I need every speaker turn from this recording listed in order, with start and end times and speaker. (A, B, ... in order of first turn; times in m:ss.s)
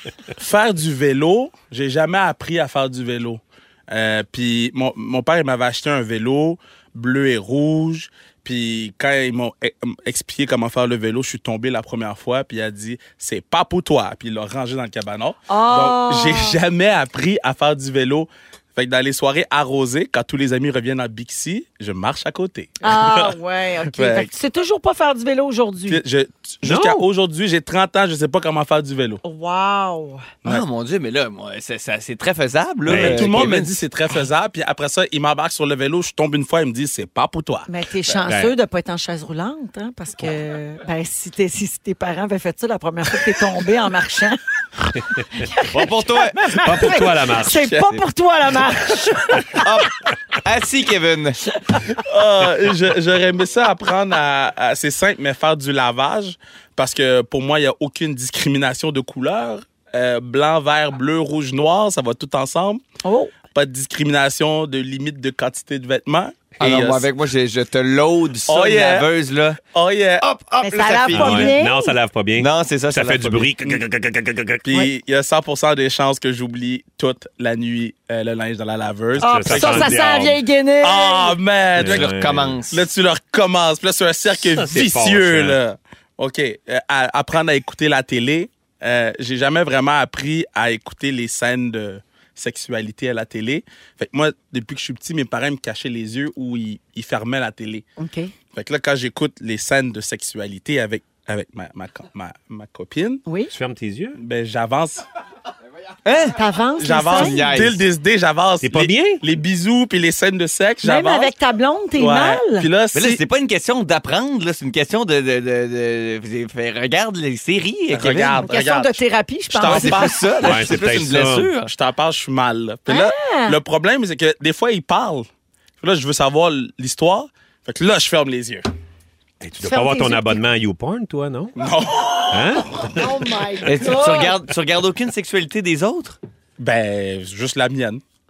0:00.4-0:22.8 A
0:15.5-0:16.6 B
0:22.8-0:26.0 B
0:24.0-0:24.3 A
0:25.9-0:29.2 A
0:26.6-0:27.0 C
0:29.2-0:30.2 B
0:30.5-0:33.8 D
0:32.9-0:33.4 C
0:32.9-0:37.7 A
0:37.7-0:49.6 B
0:38.2-0:38.5 C
0:45.7-0:46.5 D
0:46.6-0:47.7 C
0:49.6-0:51.4 D
0:52.1-1:02.8 A
1:03.0-1:03.3 B
1:03.5-1:07.0 A
1:06.6-1:09.6 D
1:08.5-1:09.1 A
1:09.7-1:10.2 A
1:10.2-1:11.6 D
1:10.6-1:12.0 B
1:11.1-1:14.9 C
1:12.4-1:13.5 D
1:14.7-1:20.0 A
1:19.2-1:20.4 C
1:19.2-1:21.4 B
1:20.8-1:22.1 A
1:21.8-1:22.6 C
1:21.8-1:22.8 D
1:22.7-1:37.8 A
1:24.4-1:25.6 C
1:38.0-1:38.3 B
1:38.5-1:43.2 A
1:43.3-1:43.5 B
1:43.5-1:44.2 C
1:44.2-1:45.1 A
1:46.0-1:46.4 D
1:46.3-1:47.4 B
1:46.8-1:51.3 A
1:47.0-1:47.8 D
1:48.6-1:49.2 C
1:50.8-1:52.7 B
1:52.0-1:53.2 A
1:52.9-1:58.4 D
1:57.9-2:00.3 A
1:58.4-2:00.3 B
1:59.7-2:01.7 D
2:00.4-2:01.5 C
2:01.7-2:05.3 A
2:02.9-2:03.6 B
2:05.8-2:08.6 A
2:09.4-2:11.6 C
2:09.6-2:10.4 B
2:11.6-2:12.9 A
2:12.3-2:13.1 C
2:13.0-2:14.4 B
2:13.7-2:16.2 D
2:16.6-2:18.0 A